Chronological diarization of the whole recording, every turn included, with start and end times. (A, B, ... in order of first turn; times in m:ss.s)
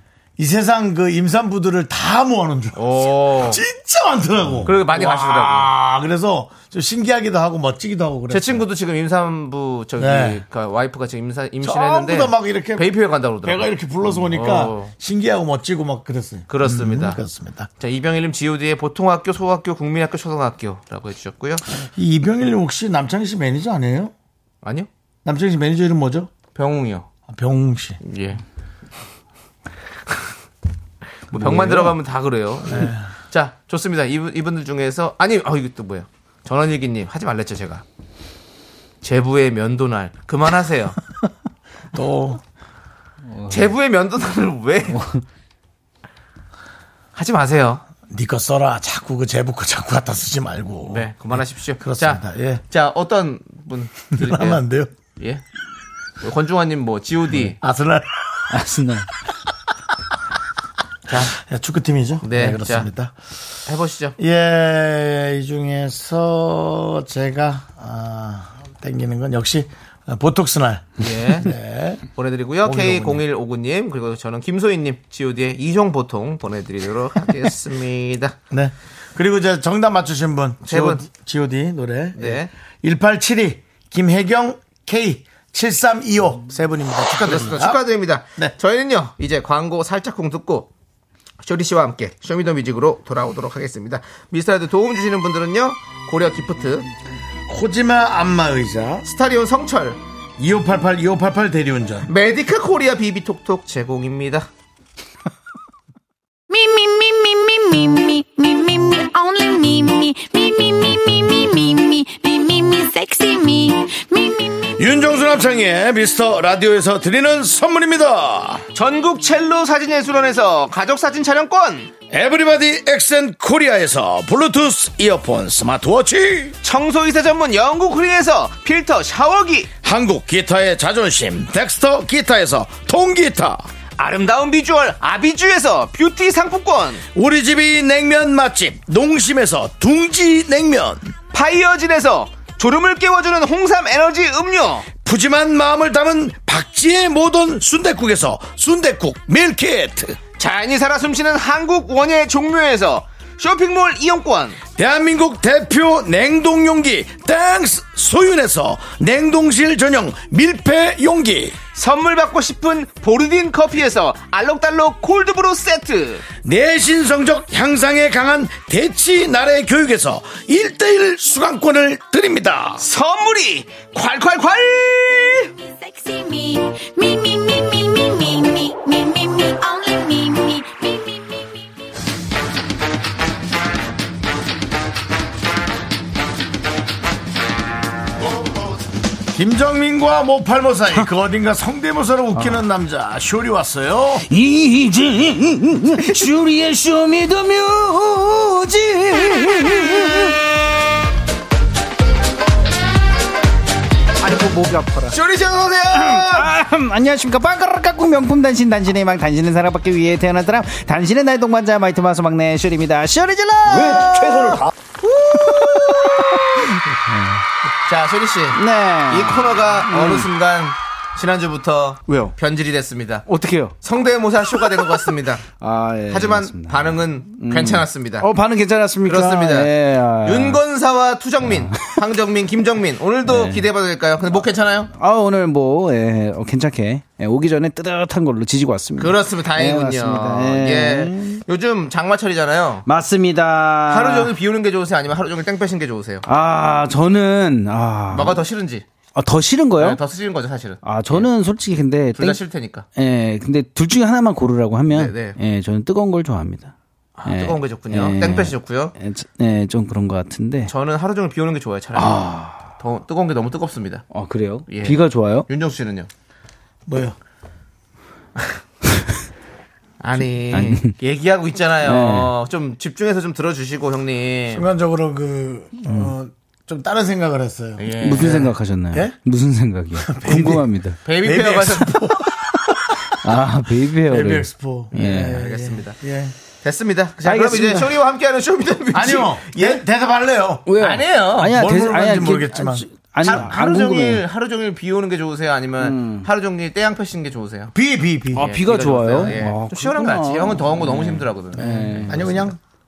0:00.4-0:08.6 A
0:02.7-0:03.6 B
0:04.6-0:05.7 B
0:08.3-0:13.7 B
0:10.0-0:10.4 A
0:11.6-0:12.9 A
0:13.4-0:17.7 A
0:14.3-0:14.9 B
0:16.5-0:17.2 B
0:17.8-0:21.6 B
0:21.8-0:24.1 A
0:24.6-0:24.9 B
0:25.2-0:26.3 A
0:26.6-0:27.1 B
0:27.3-0:28.0 A
0:28.0-0:28.4 B
0:31.3-0:37.8 B
0:31.4-0:31.8 A
0:31.6-0:31.9 C
0:32.6-0:33.0 A
0:39.0-0:41.0 B
0:41.9-0:42.4 A
0:43.3-0:43.7 C
0:43.5-0:45.1 B
0:44.9-0:45.2 C
0:47.1-0:47.8 B
0:48.1-0:52.6 A
0:50.9-0:54.6 B
0:54.1-0:54.9 A
0:55.2-0:55.4 B
0:56.2-0:57.6 B
0:57.4-0:58.6 A
0:58.5-0:59.1 C
1:01.1-1:01.4 B
1:01.3-1:03.1 A
1:02.2-1:02.9 B
1:03.7-1:04.2 B
1:04.2-1:12.0 A
1:11.0-1:11.5 B
1:12.1-1:18.4 B
1:12.6-1:13.2 A
1:18.5-1:27.8 A
1:20.6-1:21.0 B
1:22.1-1:22.5 B
1:27.1-1:30.7 B
1:31.4-1:36.9 B
1:37.5-1:39.0 A
1:39.0-1:40.0 B
1:40.4-1:42.1 A
1:42.1-1:44.5 B
1:46.5-1:54.6 D
1:54.8-1:58.6 A
1:58.7-2:01.9 B
2:02.1-2:06.6 A
2:06.6-2:09.7 B
2:09.8-2:13.6 A
2:14.0-2:17.0 B
2:17.1-2:21.1 A
2:21.3-2:24.9 B
2:25.0-2:30.2 A
2:30.4-2:34.6 B
2:34.8-2:41.6 A
2:41.7-2:46.2 B
2:46.4-2:52.8 A
2:52.8-2:55.5 B
2:55.6-3:01.5 D
3:09.3-3:14.3 A
3:12.4-3:12.7 C
3:14.3-3:20.4 C
3:24.2-3:25.2 C
3:25.1-3:26.5 B
3:25.9-3:37.4 C
3:35.3-3:36.5 B
3:37.9-3:43.3 B
3:38.5-3:40.3 C
3:42.1-3:42.3 C
3:43.3-3:43.8 C
3:43.8-3:45.4 B
3:44.8-3:50.6 C
3:46.1-3:48.3 B
3:49.0-3:49.7 B
3:50.2-3:54.9 B
3:51.5-3:51.9 C
3:53.2-3:53.7 C
3:54.9-4:01.4 C
3:59.0-4:02.9 B
4:02.9-4:04.3 C
4:03.9-4:06.2 B
4:06.3-4:08.4 C
4:08.1-4:08.8 B
4:09.1-4:10.0 C
4:09.8-4:11.3 B
4:10.8-4:12.4 C
4:12.1-4:12.9 B
4:13.0-4:16.7 C
4:14.9-4:15.4 B
4:17.2-4:18.9 B
4:17.3-4:20.7 C
4:20.7-4:24.0 B
4:22.0-4:22.7 C
4:24.1-4:25.5 C
4:24.7-4:26.1 B
4:26.9-4:27.2 A
4:30.0-4:34.7 B
4:30.5-4:31.0 C
4:31.8-4:32.4 C
4:34.5-4:38.4 A
4:35.9-4:36.1 C
4:37.8-4:38.5 B
4:38.0-4:41.0 C
4:40.0-4:40.7 A
4:41.0-4:42.2 B
4:41.2-4:43.3 A
4:43.2-4:45.4 C
4:44.0-4:46.4 A
4:44.9-4:46.0 B
4:46.6-4:49.8 B
4:47.2-4:48.0 C
4:48.9-4:50.7 A
4:50.7-4:54.2 C
4:50.8-4:51.6 B
4:51.4-4:52.8 A
4:53.2-4:57.7 B
4:55.8-4:56.3 C
4:57.7-4:58.4 A
4:58.3-5:02.5 C
4:58.4-5:02.4 B
5:01.6-5:02.6 A